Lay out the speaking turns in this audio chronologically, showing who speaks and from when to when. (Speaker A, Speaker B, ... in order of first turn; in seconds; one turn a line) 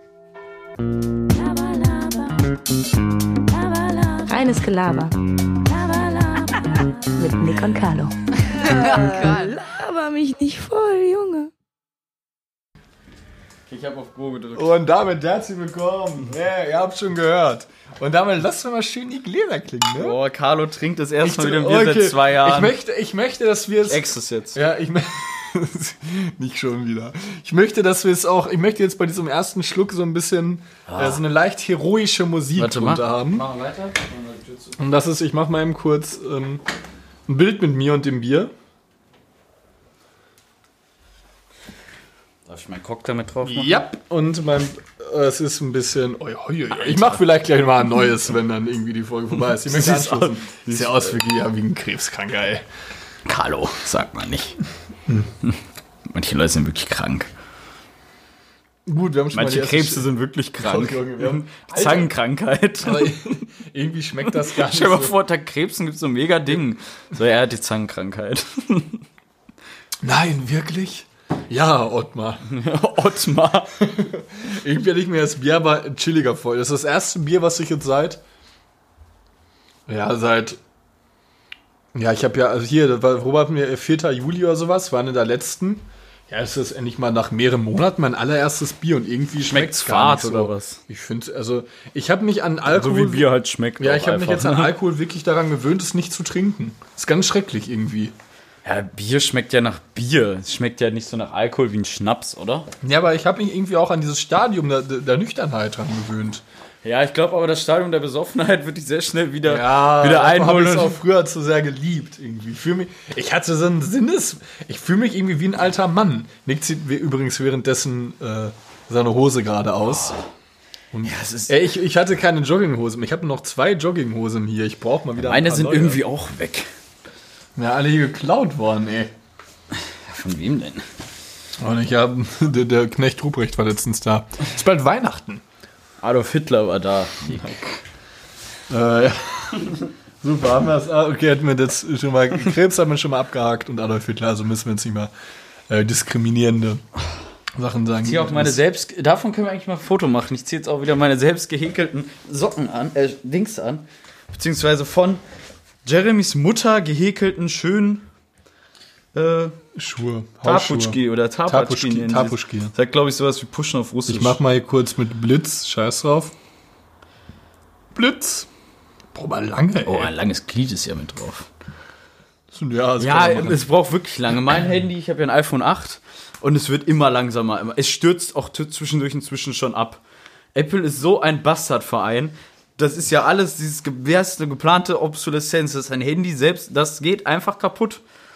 Speaker A: 1.3-2.4
Speaker A: 3.1-11.5
Speaker B: 8.6-9.5
Speaker B: 13.7-14.7
Speaker C: 14.5-20.2
Speaker B: 20.0-22.7
Speaker C: 21.2-33.5
Speaker B: 23.9-24.6
Speaker B: 30.9-31.2
Speaker B: 32.6-34.8
Speaker C: 34.8-36.6
Speaker C: 37.3-38.5
Speaker B: 42.5-43.8
Speaker C: 43.5-52.6
Speaker B: 46.7-47.2
Speaker B: 49.7-51.2
Speaker B: 53.2-54.6
Speaker B: 55.4-57.3
Speaker C: 58.9-62.1
Speaker B: 59.3-63.2
Speaker C: 62.8-65.2
Speaker B: 64.3-69.0
Speaker C: 70.0-72.5
Speaker B: 72.5-73.8
Speaker C: 73.8-78.2
Speaker C: 79.9-80.6
Speaker C: 81.9-98.1
Speaker B: 89.4-90.8
Speaker B: 92.7-94.8
Speaker B: 98.6-102.7
Speaker C: 102.8-106.4
Speaker B: 106.8-111.0
Speaker C: 109.4-120.2
Speaker B: 119.9-120.2
Speaker C: 120.9-126.0
Speaker B: 121.0-121.5
Speaker B: 125.2-126.7
Speaker C: 127.5-129.1
Speaker B: 129.8-130.9
Speaker C: 131.6-135.4
Speaker B: 136.0-137.8
Speaker C: 138.7-145.1
Speaker C: 145.7-146.8
Speaker C: 147.6-148.6
Speaker B: 148.0-155.2
Speaker B: 155.8-158.1
Speaker B: 159.1-159.6
Speaker C: 159.8-162.7
Speaker B: 160.4-164.4
Speaker C: 164.1-166.3
Speaker C: 167.9-168.5
Speaker C: 169.1-170.1
Speaker B: 169.8-171.5
Speaker C: 172.5-173.6
Speaker B: 173.0-180.0
Speaker B: 180.6-188.0